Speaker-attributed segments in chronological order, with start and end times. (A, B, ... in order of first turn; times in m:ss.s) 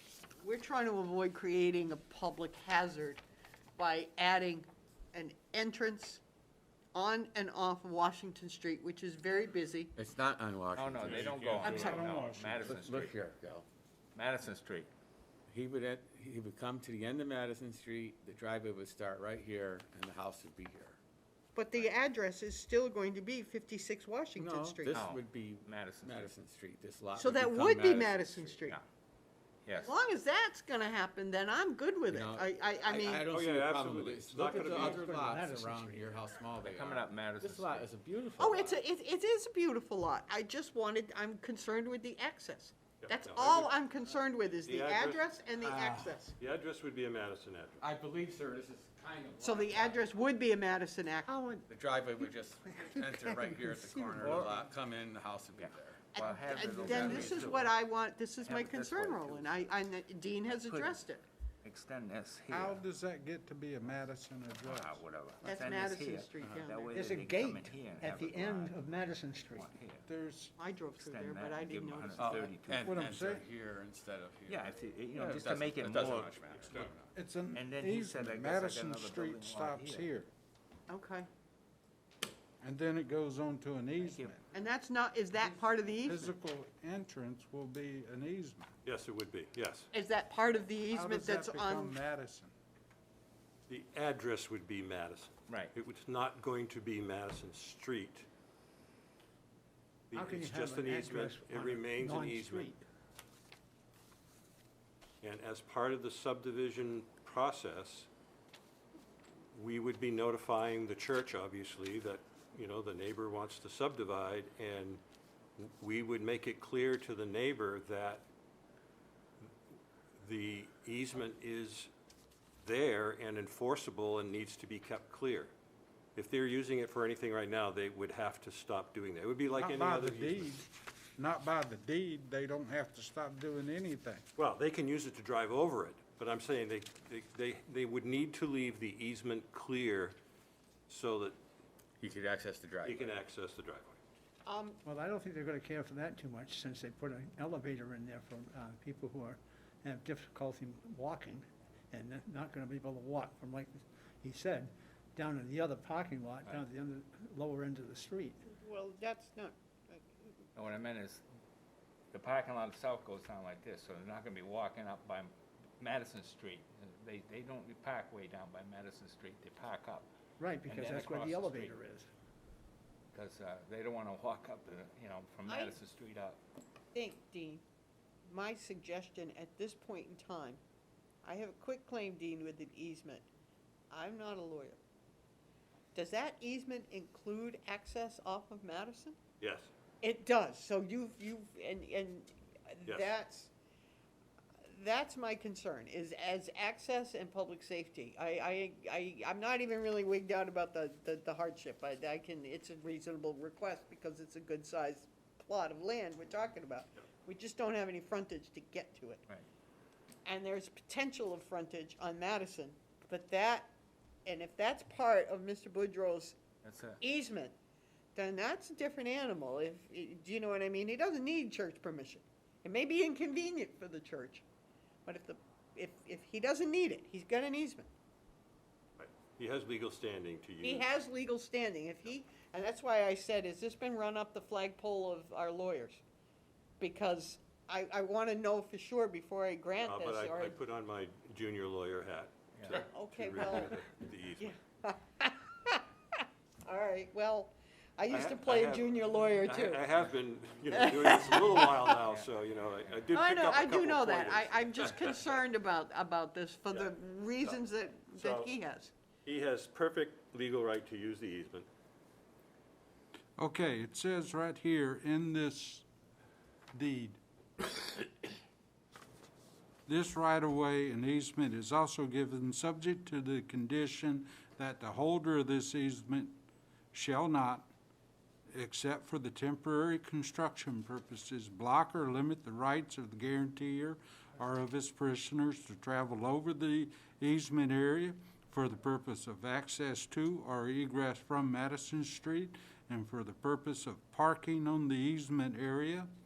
0:00.4-0:03.2 A
0:03.8-0:06.2 A
0:06.9-0:09.9 A
0:10.0-0:11.4 B
0:10.7-0:13.1 C
0:11.1-0:12.8 D
0:11.2-0:12.1 E
0:11.6-0:12.0 A
0:12.6-0:13.6 B
0:14.1-0:14.9 C
0:15.5-0:21.0 B
0:21.5-0:25.0 A
0:24.4-0:28.6 B
0:24.9-0:26.3 C
0:27.2-0:28.8 A
0:29.6-0:30.0 C
0:29.7-0:33.3 A
0:32.1-0:38.8 B
0:33.2-0:35.1 E
0:34.5-0:36.2 F
0:36.6-0:37.9 C
0:38.4-0:46.4 A
0:43.0-0:43.7 E
0:44.6-0:45.3 E
0:45.6-0:46.2 B
0:46.4-0:47.8 E
0:47.8-0:50.0 B
0:49.4-0:51.6 A
0:51.6-0:56.1 B
0:52.9-0:54.5 A
0:54.2-0:54.6 C
0:55.6-0:57.7 C
0:56.1-1:01.2 A
0:56.6-0:57.7 B
0:58.4-0:59.7 C
1:00.4-1:01.0 C
1:01.6-1:02.8 C
1:02.5-1:05.0 D
1:04.6-1:10.1 C
1:05.4-1:06.9 A
1:06.9-1:09.7 F
1:10.1-1:10.5 D
1:10.6-1:12.5 A
1:11.0-1:13.0 C
1:12.2-1:17.1 B
1:12.8-1:13.4 D
1:14.5-1:16.9 C
1:17.1-1:20.3 D
1:17.5-1:20.1 C
1:20.9-1:21.3 A
1:22.6-1:24.4 D
1:24.0-1:24.3 C
1:24.5-1:26.3 A
1:26.0-1:28.7 D
1:28.8-1:29.9 E
1:29.9-1:32.0 A
1:30.9-1:32.5 D
1:33.7-1:38.3 E
1:35.5-1:35.7 C
1:40.1-1:42.7 E
1:40.1-1:42.8 F
1:45.2-1:48.1 E
1:49.5-1:55.0 E
1:55.6-1:58.2 E
2:00.2-2:01.9 E
2:02.6-2:05.5 E
2:06.2-2:10.5 E
2:09.5-2:14.2 D
2:14.4-2:20.2 E
2:20.9-2:21.4 E
2:22.0-2:23.2 B
2:22.8-2:24.0 E
2:24.4-2:24.8 A
2:24.8-2:38.4 F
2:38.5-2:40.3 A
2:40.5-2:41.2 C
2:42.1-2:50.1 C
2:50.4-2:52.1 F
2:50.6-2:51.8 C
2:53.1-2:56.4 C
2:55.5-2:55.8 A
2:56.9-2:57.6 A
2:58.2-3:00.6 A
3:01.2-3:03.3 A
3:03.9-3:04.8 A
3:05.9-3:09.2 A
3:09.4-3:09.7 E
3:10.0-3:13.5 A
3:12.8-3:13.1 E
3:14.7-3:29.2 A
3:30.2-3:33.7 A
3:34.2-3:36.4 A
3:36.6-3:37.0 C
3:37.0-3:37.5 A
3:38.1-3:44.4 A
3:45.0-3:47.9 A
3:49.0-3:50.9 E
3:50.6-3:56.0 A
3:56.8-4:00.6 A
3:59.8-4:04.5 E
4:02.5-4:02.8 C
4:02.7-4:03.8 A
4:04.4-4:09.9 A
4:08.1-4:08.9 E
4:09.4-4:15.1 E
4:10.7-4:12.0 A
4:12.0-4:12.3 C
4:13.1-4:18.9 A
4:16.7-4:17.6 E
4:18.1-4:18.5 E
4:19.2-4:21.7 E
4:23.4-4:25.8 D
4:26.7-4:27.2 D
4:29.9-4:36.4 D
4:36.9-4:37.7 D
4:38.5-4:56.1 D